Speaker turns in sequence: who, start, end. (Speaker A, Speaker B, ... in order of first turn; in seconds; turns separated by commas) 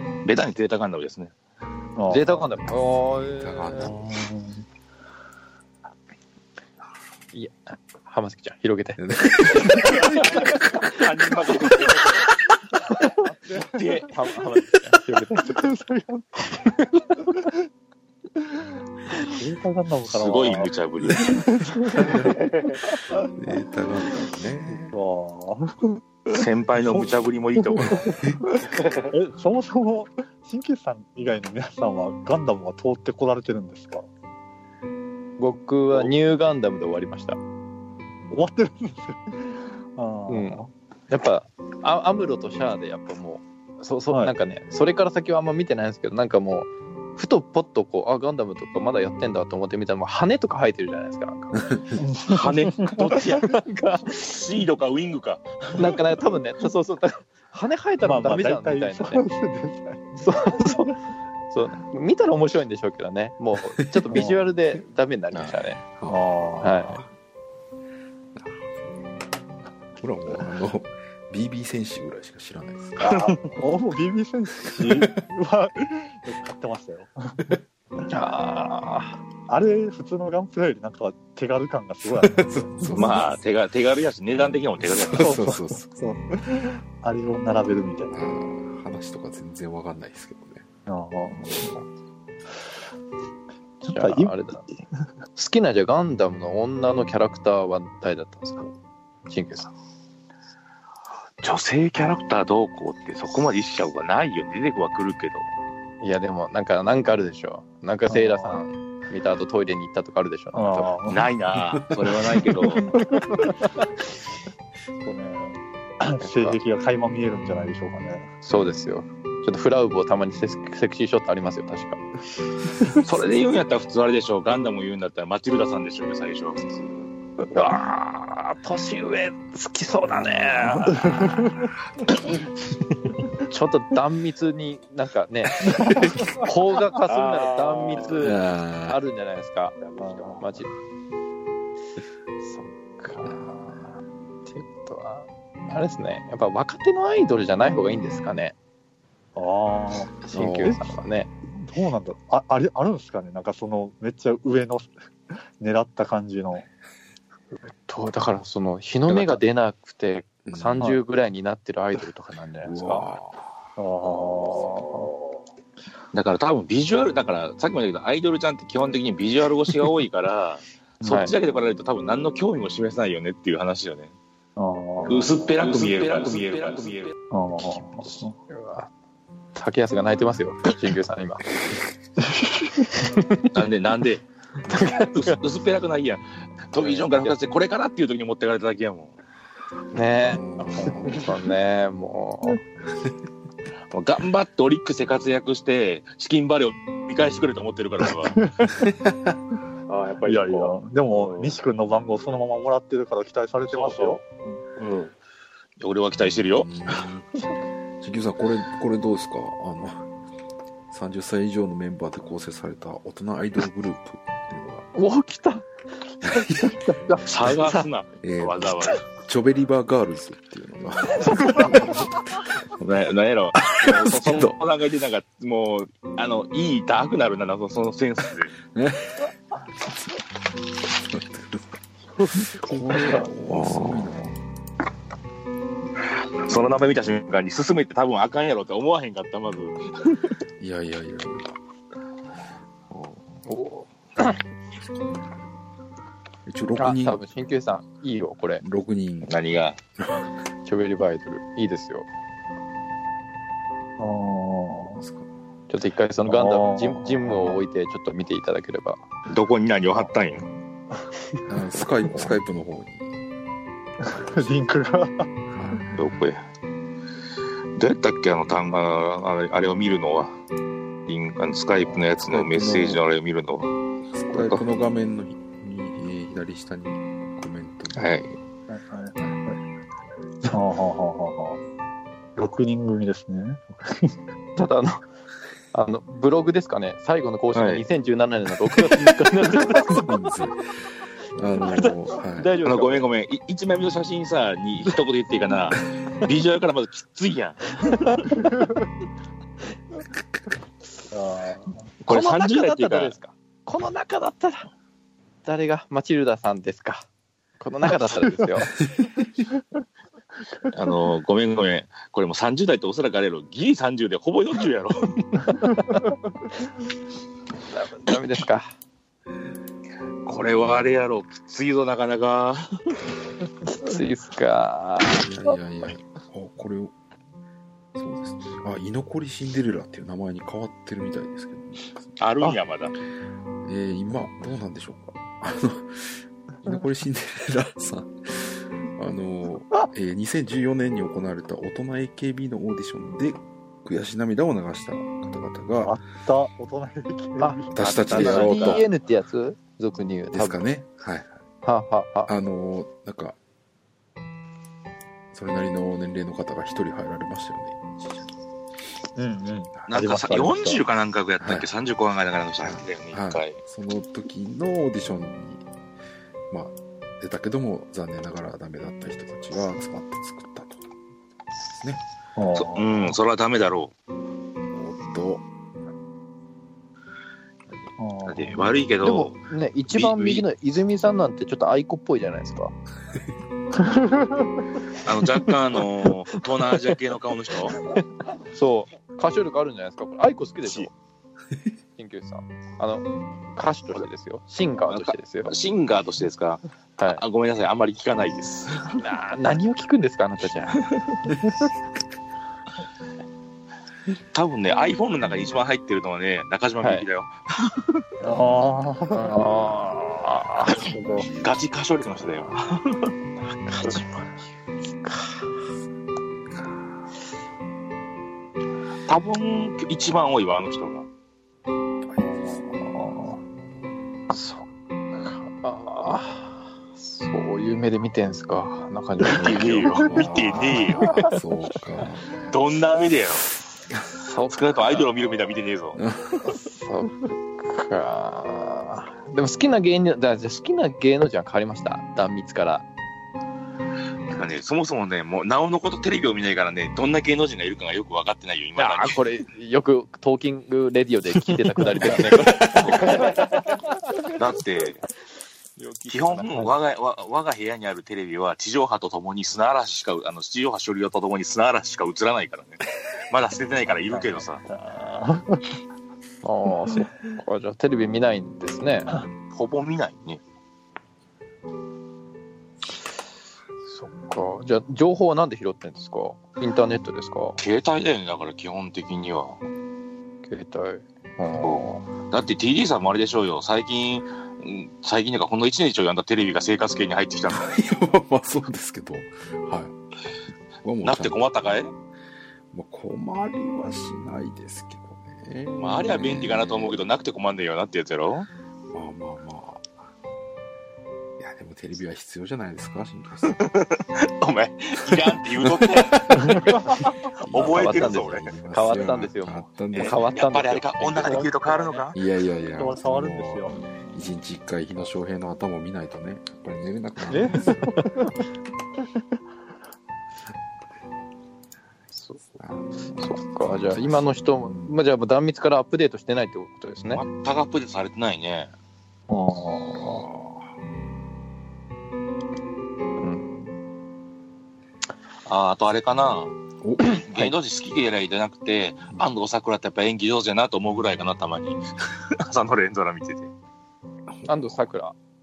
Speaker A: 0.2-1.3, Speaker B: 2.0-2.5, Speaker C: 2.1-4.0, Speaker D: 3.0-4.0, Speaker B: 3.9-4.6, Speaker C: 7.3-9.0, Speaker D: 9.0-10.1, Speaker A: 9.9-12.3, Speaker B: 13.2-14.0, Speaker A: 13.7-14.1, Speaker C: 14.1-15.7, Speaker B: 15.4-16.6, Speaker B: 17.2-17.5, Speaker B: 19.2-22.3, Speaker A: 20.1-21.4, Speaker E: 22.2-22.7, Speaker B: 22.9-23.2, Speaker D: 23.3-25.0, Speaker B: 24.9-26.0, Speaker A: 26.3-28.1, Speaker B: 26.9-28.1, Speaker B: 28.6-34.1, Speaker E: 28.8-29.1, Speaker C: 35.4-37.4, Speaker B: 38.3-39.4, Speaker B: 40.0-40.7, Speaker C: 40.3-51.6, Speaker B: 52.0-53.2, Speaker A: 52.3-53.5, Speaker C: 53.1-54.1, Speaker A: 54.1-56.0, Speaker C: 55.8-59.2, Speaker B: 58.0-60.9, Speaker C: 60.2-61.0, Speaker C: 61.5-65.8, Speaker D: 63.9-64.3, Speaker B: 64.1-64.4, Speaker D: 66.0-67.1, Speaker B: 66.1-66.9, Speaker C: 66.6-67.0, Speaker D: 68.4-68.8, Speaker D: 70.0-73.1, Speaker B: 73.0-77.5, Speaker A: 73.1-73.4, Speaker C: 78.1-79.2, Speaker B: 79.5-83.2, Speaker D: 82.0-83.4, Speaker A: 83.0-85.3, Speaker D: 84.8-86.0, Speaker B: 85.2-88.1, Speaker D: 88.1-90.7, Speaker B: 90.9-91.8, Speaker C: 93.8-94.7, Speaker B: 93.9-94.3, Speaker C: 95.4-98.7, Speaker C: 99.3-99.7, Speaker A: 101.4-105.5, Speaker C: 106.0-110.9, Speaker B: 108.1-108.6, Speaker B: 110.5-111.3, Speaker A: 111.1-112.9, Speaker B: 113.0-113.5, Speaker B: 115.0-118.3, Speaker C: 116.2-116.6, Speaker C: 118.4-122.0, Speaker A: 123.0-127.0, Speaker C: 127.5-131.4, Speaker B: 130.9-131.7, Speaker C: 133.5-139.8, Speaker E: 137.0-138.3, Speaker D: 138.2-139.0, Speaker E: 139.8-140.5, Speaker B: 140.0-140.4, Speaker C: 140.4-140.7, Speaker C: 142.4-148.5, Speaker B: 149.4-150.2, Speaker C: 150.3-151.3, Speaker D: 150.3-150.8, Speaker B: 151.5-154.9, Speaker B: 155.6-156.7, Speaker C: 157.7-163.1, Speaker D: 160.5-160.9, Speaker D: 162.6-163.4, Speaker B: 163.8-165.2, Speaker D: 164.4-164.8, Speaker A: 166.1-174.1, Speaker C: 171.0-171.3, Speaker B: 174.6-175.4, Speaker A: 175.1-177.1, Speaker B: 177.3-178.3, Speaker C: 178.5-178.9, Speaker C: 179.6-181.5, Speaker C: 183.0-183.5, Speaker A: 183.5-189.1, Speaker C: 184.7-185.4, Speaker C: 186.8-187.4, Speaker C: 189.9-192.6, Speaker D: 190.2-191.3, Speaker A: 193.9-198.4, Speaker B: 198.3-198.9, Speaker E: 199.9-201.6, Speaker B: 200.3-204.6, Speaker E: 203.7-204.2, Speaker E: 204.8-205.1, Speaker A: 205.8-206.7, Speaker D: 206.6-207.3, Speaker D: 208.0-210.0, Speaker D: 210.9-214.9, Speaker C: 214.9-215.7, Speaker D: 216.2-216.8, Speaker B: 216.8-217.2, Speaker A: 217.3-219.0, Speaker C: 217.5-217.9, Speaker D: 218.2-222.2, Speaker C: 221.2-221.8, Speaker A: 222.8-228.5, Speaker D: 223.6-224.6, Speaker D: 228.7-229.3, Speaker D: 229.8-230.1, Speaker D: 230.8-231.8, Speaker D: 232.5-234.3, Speaker A: 233.5-234.1, Speaker A: 236.4-240.2, Speaker D: 240.6-241.6, Speaker C: 243.5-244.4, Speaker D: 246.5-247.2, Speaker C: 246.8-248.6, Speaker D: 248.6-249.3, Speaker A: 249.2-249.8, Speaker C: 250.7-252.1, Speaker B: 254.0-255.0, Speaker D: 254.9-255.3, Speaker C: 255.7-259.0, Speaker B: 256.3-257.6, Speaker A: 259.3-260.5, Speaker D: 261.5-263.1, Speaker B: 264.0-265.3, Speaker D: 265.5-265.9, Speaker A: 265.9-266.4, Speaker A: 267.8-270.4, Speaker A: 271.1-273.7, Speaker D: 271.8-273.0, Speaker D: 274.1-278.1, Speaker A: 274.3-274.6, Speaker A: 277.9-278.4, Speaker B: 278.7-279.6, Speaker B: 280.5-281.6, Speaker B: 282.4-284.1, Speaker C: 284.6-285.0, Speaker C: 285.7-290.1, Speaker A: 287.5-287.8, Speaker D: 289.9-290.7, Speaker D: 291.4-292.5, Speaker C: 291.6-293.1, Speaker A: 292.6-297.9, Speaker C: 297.9-298.2, Speaker B: 298.3-298.7, Speaker B: 301.1-301.9, Speaker A: 302.1-303.1, Speaker C: 302.1-304.7, Speaker C: 305.4-307.1, Speaker C: 307.6-308.7, Speaker A: 310.7-315.2, Speaker C: 315.5-316.1, Speaker C: 317.7-318.8, Speaker A: 320.3-322.7, Speaker C: 323.6-325.6, Speaker D: 325.1-326.9, Speaker D: 328.0-332.1, Speaker A: 332.2-332.9, Speaker D: 333.6-346.0, Speaker B: 345.8-348.9, Speaker C: 347.4-350.6, Speaker D: 347.7-348.9, Speaker D: 350.3-351.4, Speaker C: 351.6-352.3, Speaker D: 352.3-353.4, Speaker D: 355.3-358.3, Speaker B: 359.2-360.8, Speaker A: 359.9-363.6, Speaker D: 361.4-361.7, Speaker D: 362.6-365.6, Speaker D: 366.5-370.8, Speaker B: 372.4-373.2, Speaker A: 372.6-373.9, Speaker D: 374.7-375.4, Speaker B: 378.0-378.6, Speaker A: 378.2-380.5, Speaker C: 379.0-382.7, Speaker B: 383.8-384.5, Speaker A: 385.0-387.8, Speaker C: 388.5-390.9, Speaker A: 390.6-390.9, Speaker C: 392.0-395.6, Speaker A: 394.9-398.9, Speaker C: 397.0-397.2, Speaker C: 399.0-400.9, Speaker A: 404.3-407.9, Speaker C: 406.8-407.1, Speaker B: 408.2-409.4, Speaker C: 409.1-410.9, Speaker B: 410.8-411.3, Speaker A: 411.4-413.1, Speaker C: 413.4-414.5, Speaker C: 415.0-415.5, Speaker A: 419.1-421.1, Speaker D: 422.0-422.8, Speaker B: 422.9-423.4, Speaker C: 424.3-431.4, Speaker D: 429.3-432.3, Speaker A: 429.3-431.1, Speaker A: 432.5-433.5, Speaker C: 434.2-435.1, Speaker A: 434.5-436.0, Speaker D: 436.0-436.4, Speaker C: 436.4-442.9, Speaker A: 444.3-449.2, Speaker C: 448.8-453.4, Speaker D: 452.6-452.9, Speaker A: 452.7-453.4, Speaker A: 454.4-455.0, Speaker C: 455.8-456.8, Speaker A: 456.1-464.6, Speaker B: 464.1-465.6, Speaker C: 466.4-469.2, Speaker A: 469.5-470.4, Speaker C: 473.9-477.6, Speaker A: 477.6-479.6, Speaker C: 480.5-482.1, Speaker A: 481.6-487.7, Speaker D: 487.5-489.9, Speaker D: 490.8-491.4, Speaker A: 491.0-491.9, Speaker D: 492.7-497.1, Speaker A: 495.8-498.5, Speaker D: 498.9-499.9, Speaker D: 501.4-503.6, Speaker A: 503.5-506.7, Speaker D: 505.1-506.6, Speaker D: 507.4-510.4, Speaker A: 507.5-508.5, Speaker C: 507.6-511.5, Speaker A: 509.9-512.2, Speaker B: 511.2-512.1, Speaker D: 512.1-518.0, Speaker B: 512.8-513.9, Speaker B: 517.3-518.2, Speaker C: 522.1-522.4, Speaker D: 522.5-525.0, Speaker C: 523.1-527.2, Speaker A: 527.1-528.7, Speaker B: 529.3-530.3, Speaker D: 530.0-530.7, Speaker C: 533.2-533.7, Speaker A: 535.5-536.6, Speaker D: 536.8-537.2, Speaker C: 537.0-537.5, Speaker A: 537.1-541.8, Speaker A: 542.5-543.5, Speaker D: 544.3-544.9, Speaker C: 544.5-545.1